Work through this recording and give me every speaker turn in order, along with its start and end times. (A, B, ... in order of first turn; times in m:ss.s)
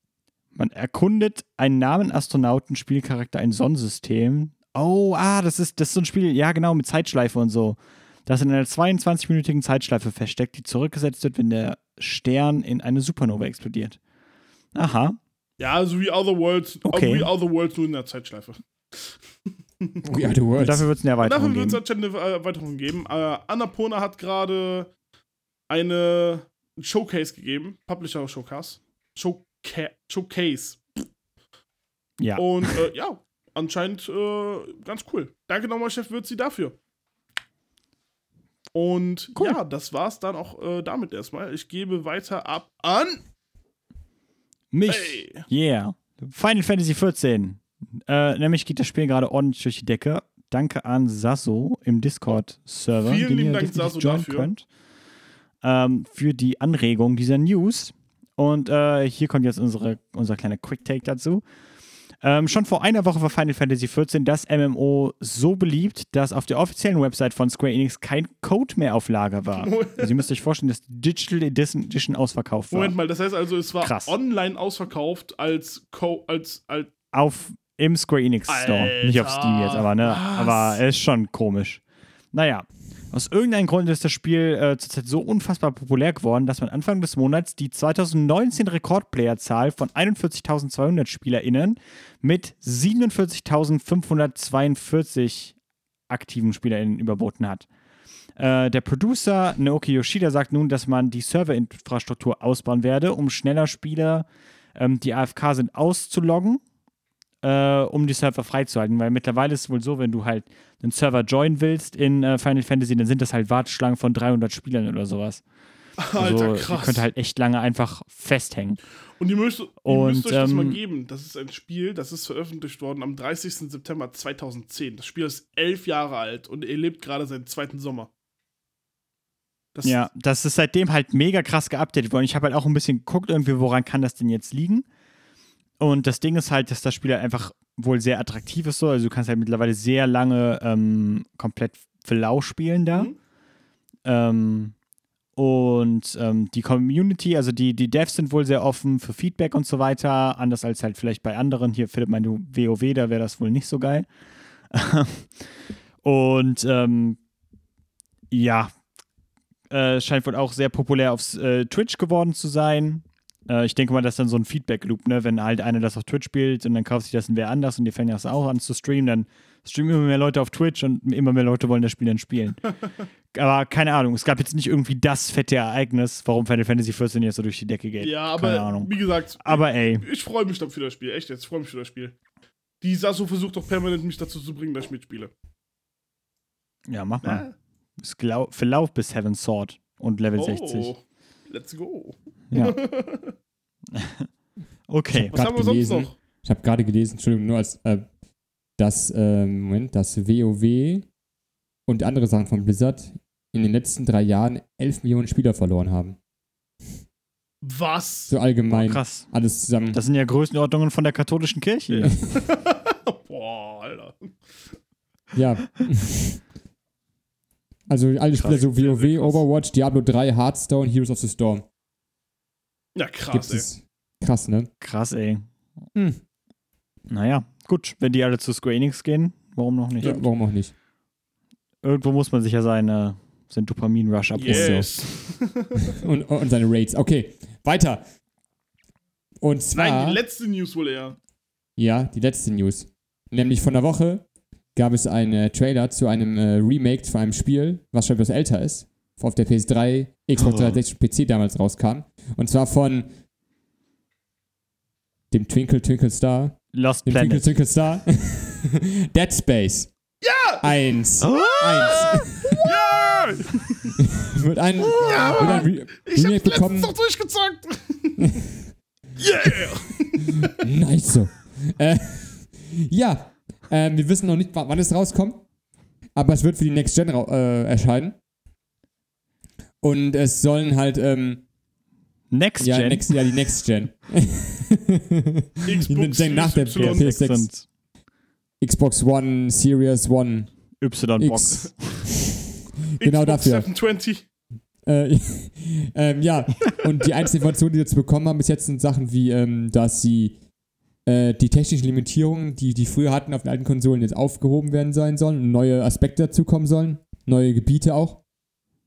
0:00.6-0:14.0 A
0:14.8-0:15.2 A
0:15.6-0:19.1 B
0:16.8-0:17.3 A
0:20.0-0:20.9 C
0:20.2-0:21.8 A
0:21.2-0:24.9 B
0:25.7-0:30.8 B
0:32.2-0:32.8 A
0:32.4-0:36.8 B
0:38.7-0:43.2 B
0:44.7-0:54.6 A
0:44.9-0:45.4 B
0:53.0-0:54.5 B
0:55.6-1:01.4 A
1:02.2-1:13.0 A
1:09.5-1:10.2 B
1:12.7-1:16.9 B
1:13.8-1:14.2 A
1:17.1-1:21.8 A
1:18.5-1:20.8 B
1:22.3-1:35.6 A
1:36.1-1:37.7 A
1:38.4-1:46.6 A
1:47.4-1:55.4 A
1:56.0-1:57.1 B
1:56.1-1:58.8 A
1:59.2-2:08.1 B
1:59.8-2:00.8 A
2:09.8-2:10.0 B
2:09.8-2:14.8 A
2:15.8-2:23.1 A
2:24.1-2:24.8 A
2:25.4-2:34.1 A
2:34.7-2:35.5 A
2:36.0-2:37.2 A
2:38.3-2:38.7 A
2:39.7-2:52.6 A
2:53.3-3:00.0 A
2:58.0-3:02.1 B
3:02.8-3:05.3 B
3:06.9-3:07.4 A
3:07.2-3:07.5 B
3:08.0-3:10.9 A
3:10.4-3:13.4 B
3:12.5-3:12.8 A
3:13.9-3:14.3 A
3:14.9-3:15.4 A
3:15.1-3:18.1 C
3:15.3-3:16.2 B
3:18.8-3:21.1 C
3:21.9-3:26.2 C
3:27.6-3:28.4 B
3:28.3-3:30.0 C
3:28.7-3:29.3 A
3:29.9-3:32.2 A
3:31.9-3:34.4 B
3:35.3-3:36.4 C
3:37.9-3:41.7 C
3:38.4-3:39.4 B
3:43.0-3:43.7 B
3:43.3-3:44.7 C
3:44.8-3:45.5 A
3:46.0-3:46.2 C
3:47.1-3:50.2 A
3:50.0-3:50.3 B
3:50.0-3:50.7 C
3:51.8-3:55.0 A
3:54.4-3:56.0 B
3:54.5-3:54.9 C
3:56.0-3:58.0 C
3:59.4-4:00.2 C
3:59.7-4:01.2 B
4:01.8-4:13.1 C
4:10.4-4:10.8 A
4:15.3-4:20.0 C
4:16.7-4:17.5 A
4:20.2-4:24.0 B
4:20.6-4:22.6 C
4:24.2-4:26.9 C
4:24.9-4:28.4 B
4:29.2-4:30.5 B
4:30.6-4:35.4 C
4:36.2-4:38.2 C
4:39.8-4:41.4 C
4:42.3-4:43.1 A
4:42.6-4:47.5 C
4:45.6-4:47.1 B
4:46.8-4:47.7 A
4:48.6-4:50.6 C
4:50.8-4:52.0 A
4:51.2-4:52.3 C
4:53.0-4:53.7 C
4:53.0-4:54.2 B
4:54.8-5:00.4 C
5:01.0-5:08.2 C